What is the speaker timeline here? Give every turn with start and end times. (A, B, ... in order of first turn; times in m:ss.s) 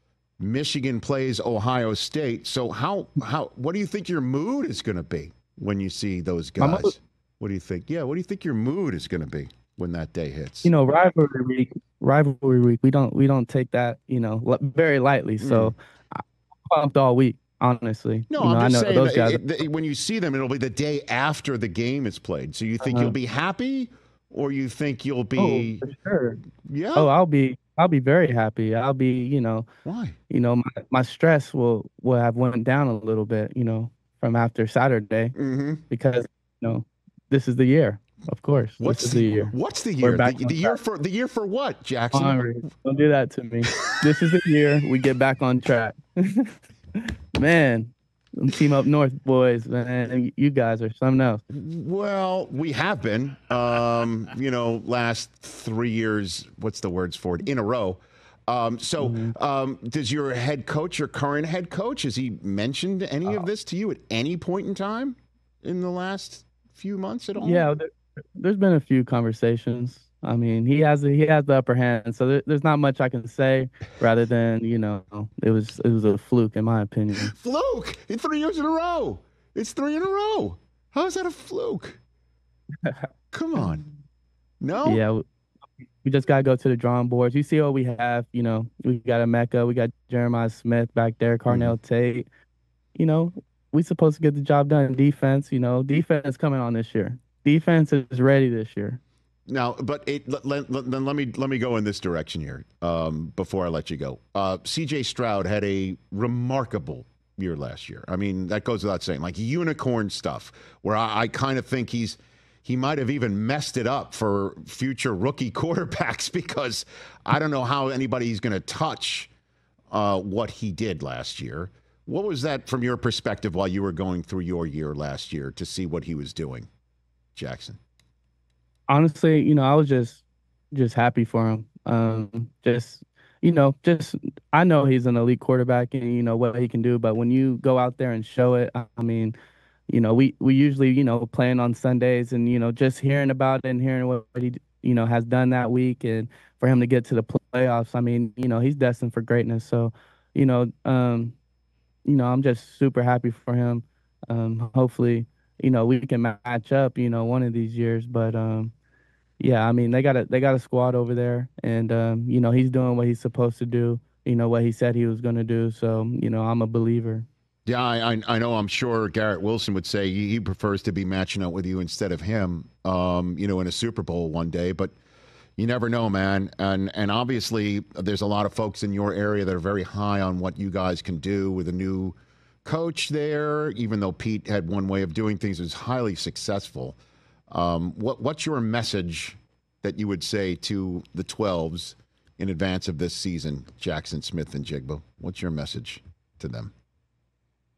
0:00.4-0:10.7 A
0:06.6-0:06.9 B
0:10.6-0:19.5 B
0:15.4-0:15.7 A
0:18.3-0:25.8 A
0:22.8-0:23.1 B
0:25.4-0:26.4 B
0:26.6-0:27.1 A
0:26.9-0:29.7 B
0:29.8-0:30.2 A
0:30.3-0:35.3 B
0:35.4-0:35.8 A
0:35.9-0:40.8 B
0:38.8-0:42.4 A
0:42.1-0:51.4 B
0:51.5-1:07.7 A
0:59.0-0:59.3 B
1:07.4-1:17.3 B
1:17.2-1:22.0 A
1:23.3-1:23.8 A
1:24.6-1:25.0 A
1:24.8-1:25.2 B
1:26.0-1:32.3 B
1:31.5-1:31.7 A
1:32.9-1:39.0 B
1:39.5-1:59.3 A
1:59.9-2:06.7 A
2:07.3-2:07.8 A
2:08.9-2:19.3 B
2:19.9-2:31.4 B
2:32.0-2:38.7 B
2:39.4-2:47.3 B
2:47.6-2:54.9 A
2:55.6-3:07.0 A
3:07.5-3:16.7 A